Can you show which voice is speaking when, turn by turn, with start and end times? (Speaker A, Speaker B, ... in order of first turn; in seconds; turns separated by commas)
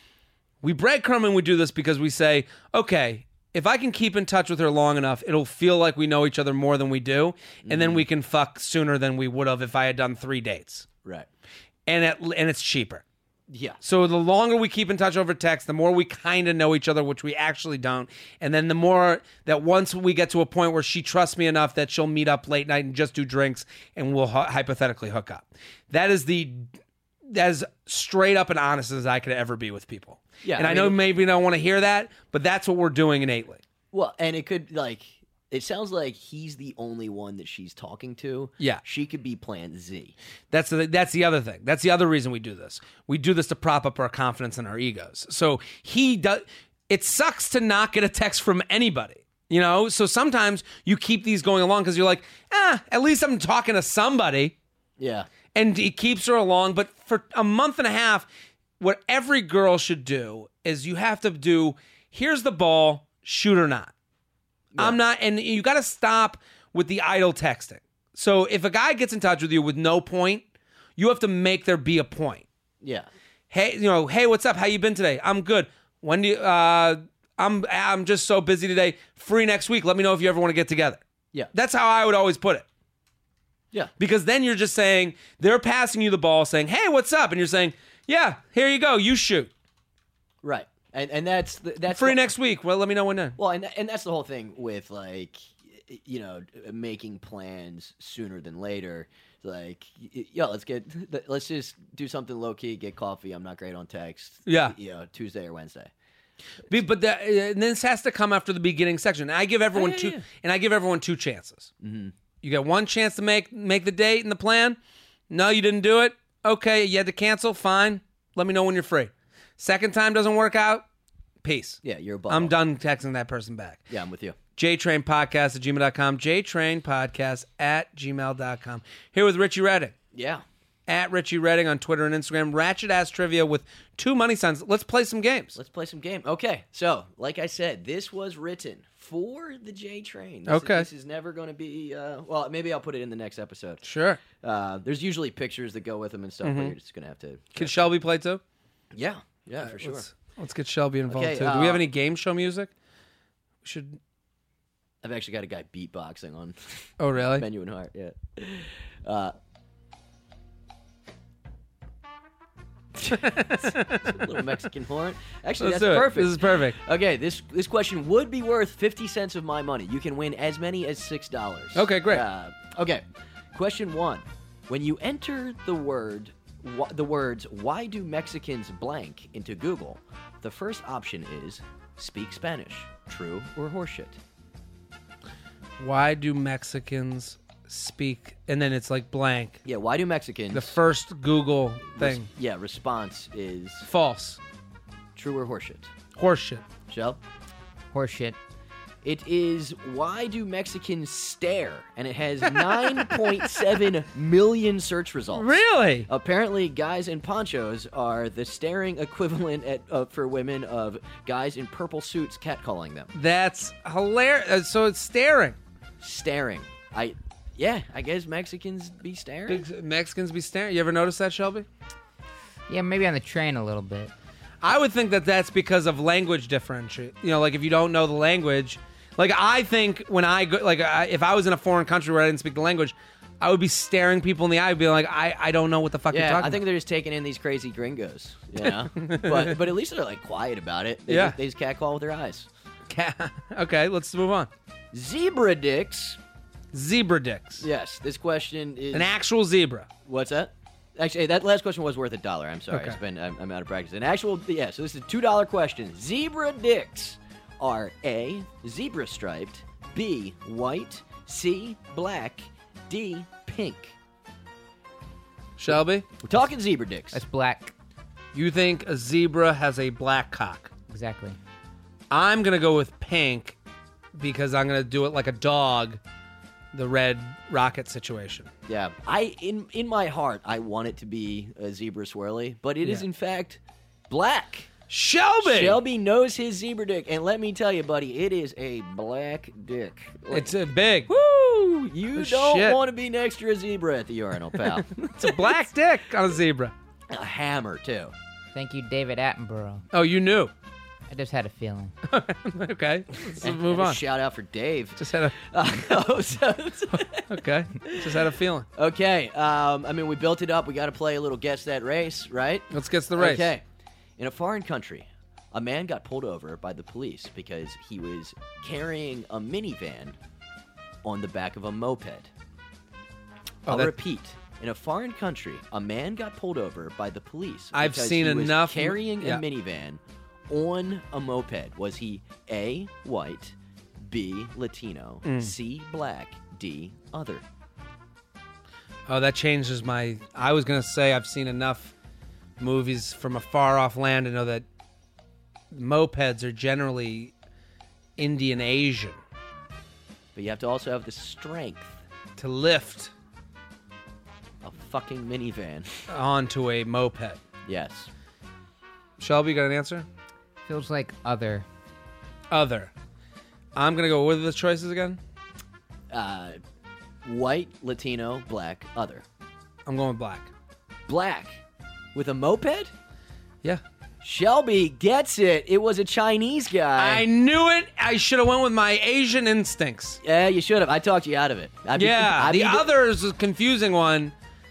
Speaker A: 0.6-10.9, Speaker B: 7.6-8.0, Speaker B: 11.0-11.3, Speaker A: 11.8-13.0, Speaker B: 13.5-13.8, Speaker A: 13.8-26.7, Speaker A: 27.2-33.6, Speaker B: 30.4-31.0, Speaker B: 33.9-40.1, Speaker A: 40.5-54.5, Speaker B: 55.0-55.3, Speaker A: 55.5-58.3, Speaker A: 58.8-63.9, Speaker B: 64.7-65.0, Speaker A: 64.8-70.5, Speaker A: 71.0-72.4, Speaker B: 72.8-73.1, Speaker A: 73.5-81.0, Speaker A: 81.5-82.7, Speaker A: 84.0-89.5, Speaker B: 90.4-92.2, Speaker A: 91.9-93.3, Speaker B: 93.4-105.9, Speaker A: 104.5-104.8, Speaker A: 106.7-111.7, Speaker B: 109.7-110.2, Speaker B: 111.8-112.1, Speaker A: 112.4-114.8, Speaker A: 115.3-120.8, Speaker A: 121.4-123.9, Speaker B: 121.8-122.5, Speaker B: 123.9-124.4, Speaker A: 124.5-129.9, Speaker B: 130.1-130.4, Speaker A: 130.9-135.6, Speaker B: 135.5-143.8, Speaker A: 140.5-140.9, Speaker A: 143.8-144.2, Speaker B: 144.4-147.9, Speaker A: 146.4-146.7, Speaker A: 147.5-148.4, Speaker B: 148.9-150.1, Speaker A: 149.6-152.7, Speaker B: 151.1-151.8, Speaker A: 153.6-154.0, Speaker B: 155.0-159.3, Speaker A: 157.0-157.4, Speaker B: 162.9-184.2, Speaker A: 163.1-164.3, Speaker A: 165.6-166.8, Speaker A: 171.7-172.2, Speaker A: 185.8-189.6, Speaker B: 189.6-190.8, Speaker A: 190.5-192.3, Speaker B: 191.9-193.9, Speaker A: 193.8-194.4, Speaker B: 195.1-195.9, Speaker A: 196.2-196.6, Speaker B: 196.9-197.2, Speaker C: 197.9-198.3, Speaker B: 199.0-213.1, Speaker A: 202.4-203.4, Speaker A: 205.3-206.1, Speaker A: 213.1-215.6, Speaker B: 216.0-219.6, Speaker A: 219.5-221.7, Speaker C: 222.7-224.1, Speaker A: 224.6-236.6, Speaker B: 236.1-242.5, Speaker A: 238.6-239.6, Speaker A: 241.1-241.4, Speaker A: 242.9-244.5, Speaker B: 244.9-246.2, Speaker A: 246.7-247.6, Speaker B: 247.6-249.1, Speaker A: 248.9-249.9, Speaker B: 250.1-263.9, Speaker A: 252.7-253.0, Speaker A: 265.6-266.1, Speaker B: 266.2-267.2, Speaker C: 267.1-267.7, Speaker A: 268.3-270.7, Speaker C: 270.9-271.4, Speaker A: 272.1-273.6, Speaker A: 274.1-276.0, Speaker A: 276.7-278.5, Speaker B: 278.7-284.7, Speaker A: 284.9-285.8, Speaker B: 285.4-295.4, Speaker A: 290.3-291.1, Speaker A: 292.1-292.8, Speaker A: 294.6-296.7, Speaker B: 297.1-298.1, Speaker C: 298.5-299.8, Speaker A: 299.9-300.5, Speaker C: 301.1-301.9, Speaker A: 302.1-304.0, Speaker B: 303.4-313.6, Speaker A: 305.0-305.4, Speaker A: 307.1-308.7, Speaker A: 312.7-313.5, Speaker B: 314.2-320.2, Speaker B: 321.0-322.3, Speaker A: 323.6-323.9, Speaker B: 323.7-337.4, Speaker A: 327.7-329.4, Speaker A: 335.2-335.5, Speaker A: 339.1-341.9, Speaker A: 342.6-344.6, Speaker A: 345.7-347.3, Speaker A: 348.2-349.2, Speaker B: 350.3-352.0, Speaker A: 352.4-353.1, Speaker B: 354.6-356.1, Speaker A: 356.1-357.4, Speaker B: 357.7-358.1, Speaker A: 359.2-360.1, Speaker C: 360.6-361.6, Speaker A: 362.5-362.9, Speaker A: 363.7-365.2, Speaker B: 366.1-366.6, Speaker B: 367.2-369.2, Speaker A: 369.9-370.5, Speaker B: 371.1-371.6, Speaker B: 372.1-372.9, Speaker B: 374.2-377.3, Speaker A: 377.0-380.2, Speaker B: 380.2-382.9, Speaker A: 381.9-384.3